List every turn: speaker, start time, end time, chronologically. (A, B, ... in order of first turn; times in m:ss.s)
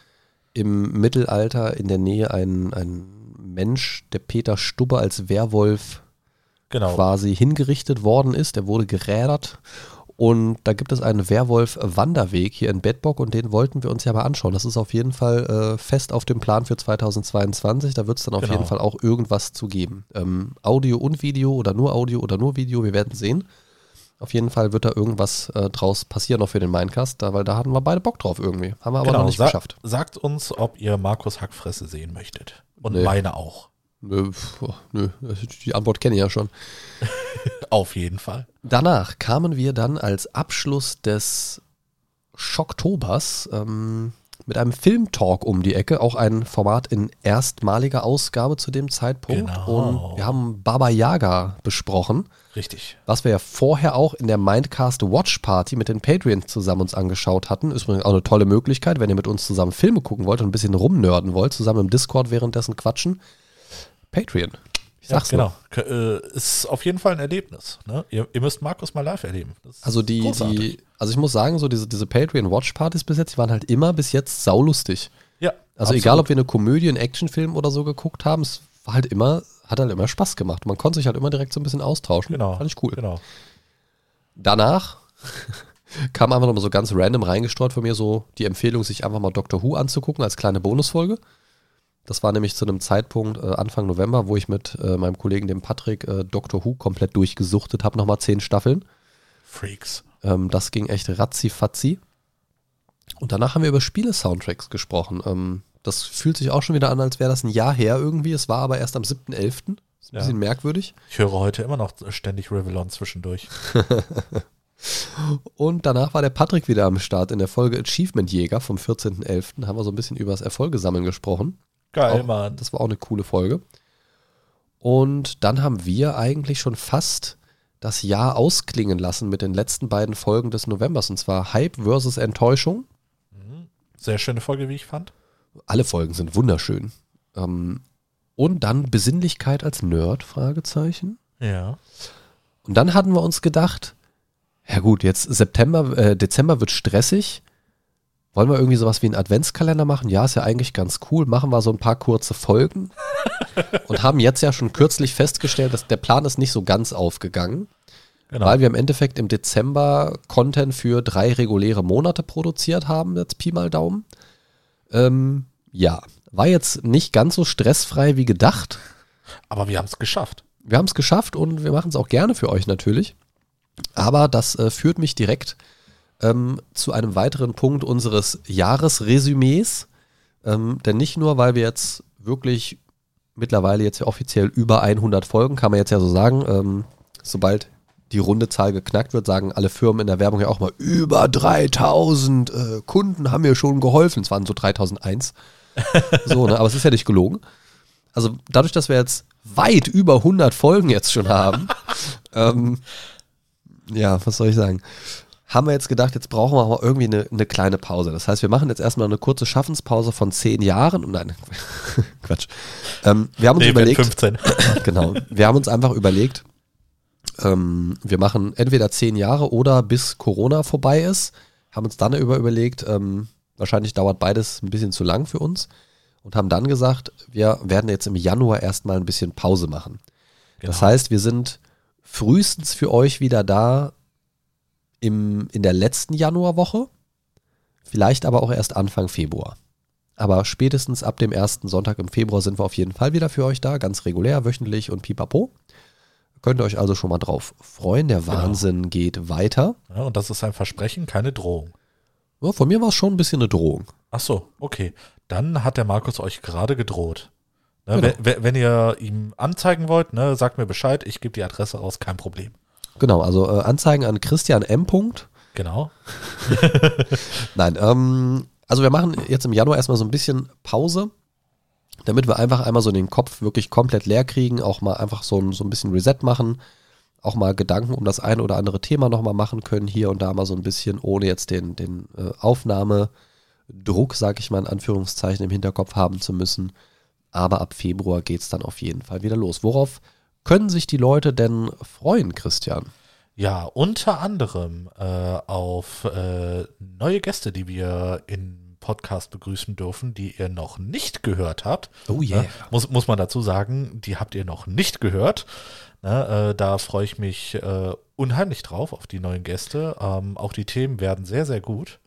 0:00.5-0:06.0 A
0:06.7-0:07.0 B
0:06.9-0:23.5 A
0:18.4-0:18.7 B
0:24.2-0:29.8 A
0:29.0-0:33.7 B
0:32.8-0:33.1 A
0:34.0-0:36.5 A
0:37.0-0:38.5 B
0:38.6-0:41.6 A
0:42.3-0:52.3 A
0:49.3-0:50.4 B
0:52.5-0:53.0 B
0:53.1-1:03.2 A
1:04.1-1:05.5 A
1:05.1-1:10.7 B
1:09.8-1:15.1 A
1:15.4-1:16.3 B
1:15.8-1:23.0 A
1:22.3-1:23.2 B
1:24.4-1:31.2 A
1:32.1-1:38.8 A
1:39.5-1:40.0 B
1:40.2-1:42.0 A
1:43.2-1:50.9 A
1:51.1-1:53.5 B
1:53.6-2:03.6 A
2:01.9-2:02.6 B
2:04.8-2:12.8 A
2:13.3-2:15.1 B
2:15.7-2:17.8 A
2:18.4-2:21.2 A
2:21.4-2:21.8 B
2:22.6-2:23.9 A
2:24.7-2:27.4 A
2:28.3-2:32.9 A
2:33.8-2:37.7 A
2:38.3-2:38.6 B
2:38.4-2:44.0 A
2:44.9-2:48.8 A
2:49.5-2:50.4 B
2:50.6-2:53.1 A
2:54.0-2:55.6 A
2:56.2-2:59.9 A
3:00.4-3:02.8 A
3:03.4-3:15.3 A
3:15.9-3:16.2 B
3:16.0-3:17.4 A
3:18.1-3:22.8 A
3:23.9-3:36.4 A
3:33.6-3:35.3 B
3:37.4-3:45.7 A
3:46.2-3:50.0 A
3:50.6-3:50.9 B
3:50.6-3:53.9 A
3:55.0-3:56.9 A
3:57.9-3:59.6 A
4:00.2-4:05.5 A
4:06.4-4:09.8 A
4:08.3-4:08.6 B
4:09.9-4:11.7 B
4:12.4-4:13.9 A
4:14.1-4:17.3 B
4:17.9-4:22.5 B
4:17.9-4:18.2 A
4:23.0-4:25.3 A
4:25.5-4:25.9 B
4:26.2-4:26.6 A
4:26.4-4:27.4 B
4:27.4-4:31.1 A
4:32.0-4:36.6 A
4:37.2-4:43.1 A
4:43.7-4:46.7 A
4:47.3-4:52.9 A
4:53.4-5:12.0 B
5:02.1-5:02.7 A